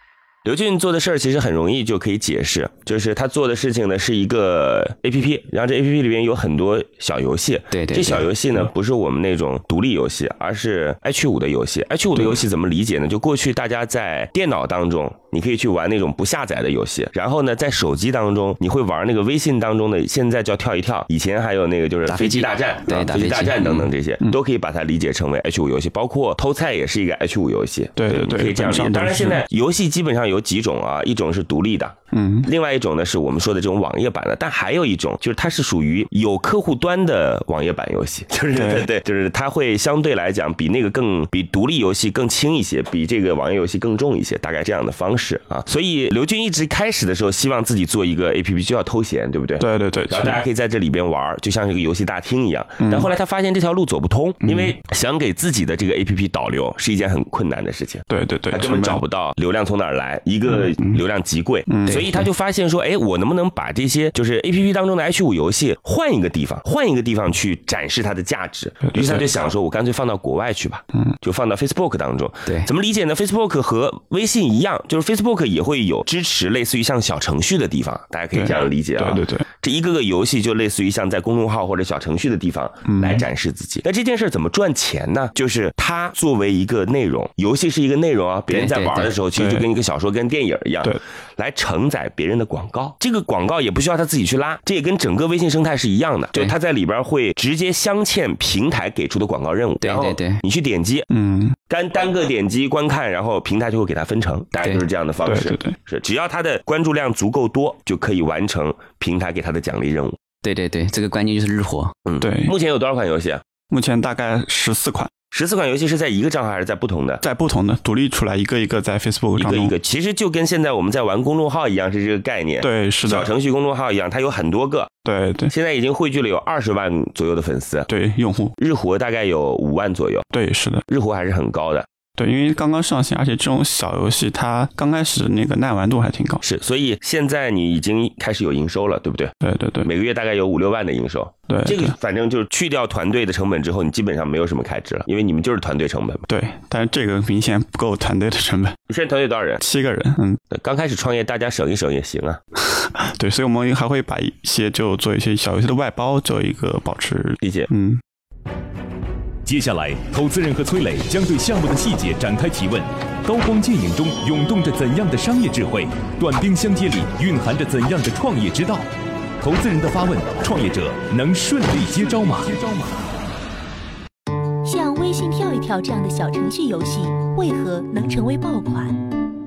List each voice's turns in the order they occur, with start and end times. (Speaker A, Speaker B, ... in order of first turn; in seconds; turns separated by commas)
Speaker A: 0.4-101.1, Speaker B: 7.7-8.3, Speaker B: 22.1-23.9, Speaker C: 28.0-29.4, Speaker C: 32.1-32.5, Speaker C: 38.5-38.9, Speaker C: 49.6-50.4, Speaker C: 52.8-53.1, Speaker B: 54.4-54.7, Speaker C: 58.1-59.0, Speaker C: 61.7-62.2, Speaker C: 68.8-69.3, Speaker C: 78.3-79.5, Speaker C: 82.9-83.2, Speaker B: 88.5-89.1, Speaker C: 89.3-89.7, Speaker B: 99.8-100.4, Speaker C: 101.1-101.5, Speaker A: 101.7-110.2, Speaker C: 105.2-105.8, Speaker B: 110.4-111.9, Speaker A: 112.1-113.4, Speaker C: 112.2-112.5, Speaker C: 113.7-115.1, Speaker A: 115.3-117.2, Speaker C: 117.2-119.7, Speaker A: 119.4-124.9, Speaker C: 122.6-123.3, Speaker C: 125.0-125.5, Speaker A: 125.5-127.9, Speaker C: 127.9-128.5, Speaker A: 128.6-130.2, Speaker C: 130.3-130.8, Speaker A: 130.9-131.9, Speaker C: 132.2-136.4, Speaker A: 136.4-146.2, Speaker C: 139.4-139.9, Speaker C: 141.5-141.9, Speaker C: 146.3-148.8, Speaker A: 148.9-149.6, Speaker C: 149.6-150.4, Speaker A: 150.5-152.4, Speaker C: 152.6-158.0, Speaker A: 157.4-157.7, Speaker D: 159.4-168.9, Speaker D: 169.4-172.8, Speaker E: 174.6-179.0